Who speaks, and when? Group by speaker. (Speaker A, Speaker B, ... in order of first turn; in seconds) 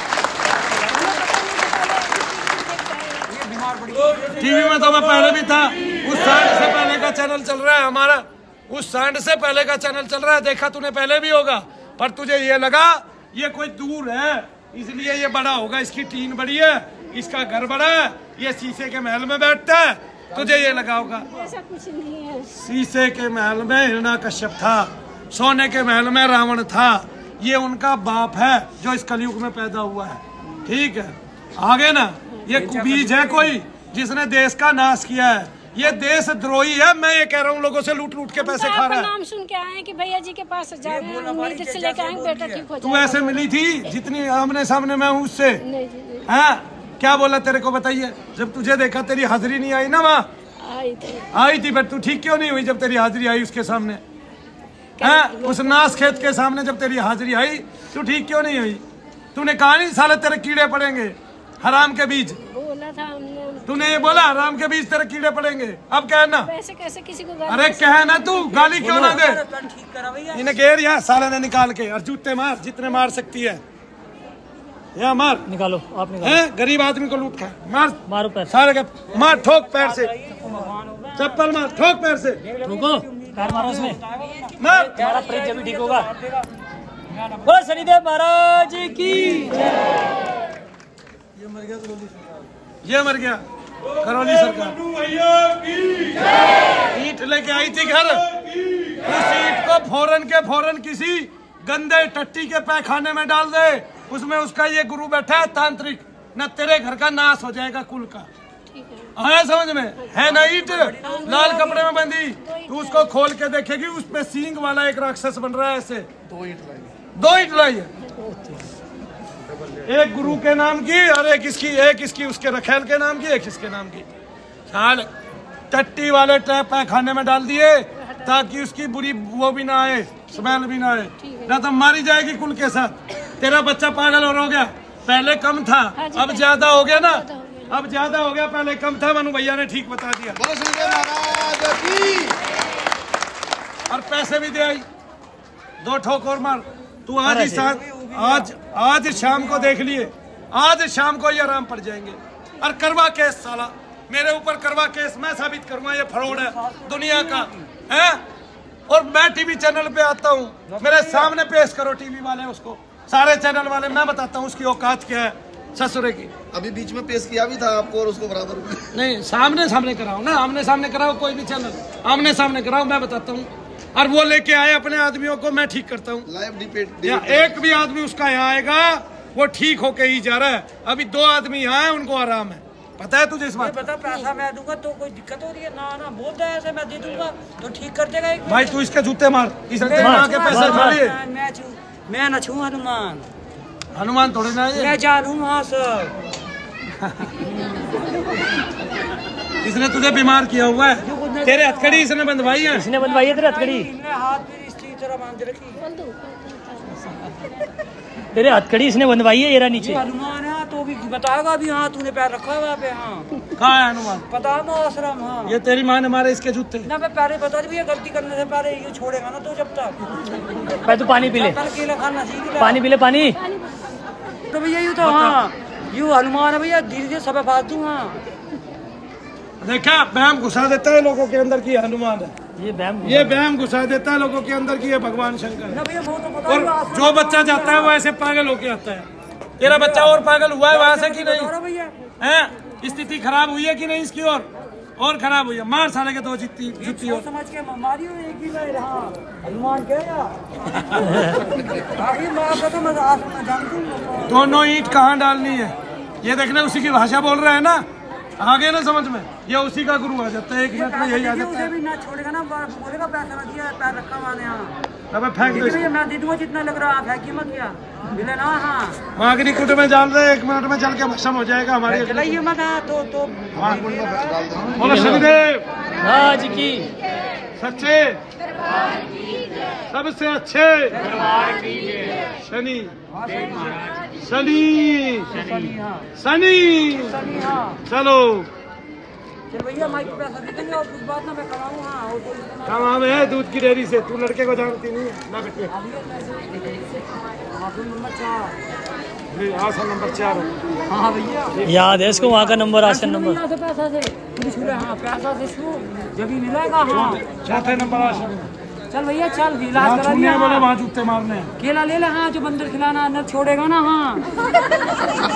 Speaker A: 0.9-3.3, 21.1-22.5, 38.3-43.5, 45.6-46.3, 50.6-51.3, 55.0-56.3, 62.4-64.4, 66.4-68.7, 108.7-109.1, 111.0-113.1, 131.2-131.6, 136.0-137.8, 205.8-207.0, 223.4-223.9
Speaker B: 3.3-4.5, 20.3-21.0, 32.5-33.5, 40.8-42.7, 68.6-70.5, 79.1-81.5, 82.4-86.5, 87.1-87.6, 110.2-111.8, 147.6-148.5, 149.2-149.7, 156.2-157.7, 160.7-161.3, 183.6-188.7, 189.8-193.3, 194.8-196.2, 197.5-198.0, 201.1-202.1, 202.9-205.8, 209.8-213.3, 214.3-215.6, 216.9-222.8, 224.5-228.2, 235.7-237.9, 239.6-241.9, 246.8-250.4, 251.1-254.5, 260.7-264.8, 265.4-269.0, 271.9-274.9, 280.9-281.9, 283.1-283.9, 285.3-286.1, 287.1-287.8, 289.5-293.0, 295.7-296.9, 297.5-298.6, 300.9-301.6, 302.2-308.3, 308.9-310.7, 311.6-314.3
Speaker C: 4.4-21.4, 22.5-39.1, 42.8-45.6, 46.3-50.3, 51.3-54.0, 55.0-58.8, 59.4-62.4, 63.7-66.5, 67.5-69.4, 70.3-73.6, 75.0-75.5, 76.2-80.1, 81.2-82.4, 84.6-85.0, 92.8-93.4, 94.0-94.8, 96.9-98.3, 99.0-108.3, 109.2-116.1, 117.2-117.9, 119.8-124.1, 124.7-125.1, 125.7-140.5, 143.9-144.8, 145.8-158.2, 158.9-166.3, 168.9-176.3, 177.0-183.9, 188.5-191.2, 193.9-194.9, 197.0-197.3, 199.6-202.9, 213.6-214.3, 215.5-216.9, 225.0-225.4, 229.6-232.3, 233.0-235.8, 236.5-239.1, 239.6-241.5, 242.2-247.3, 250.9-251.2, 254.3-257.9, 258.4-261.7, 265.1-265.9, 269.2-272.4, 273.5-273.9, 274.7-275.6, 277.6-278.2, 279.9-281.0, 282.4-282.9, 284.2-285.4, 286.2-287.2, 287.9-288.5, 292.7-295.7, 299.3-300.5, 301.6-301.8, 307.1-308.5, 309.8-311.5
Speaker D: 68.8-69.2, 75.5-76.4, 78.1-78.5, 82.7-84.0, 85.0-86.1, 87.5-89.7, 147.2-147.7, 190.0-191.0, 202.7-203.9, 208.3-210.0, 220.8-221.6, 222.6-223.4, 232.6-233.4, 274.9-275.3, 276.0-276.9, 301.7-303.4
Speaker E: 140.4-142.4, 166.5-168.9, 176.3-177.5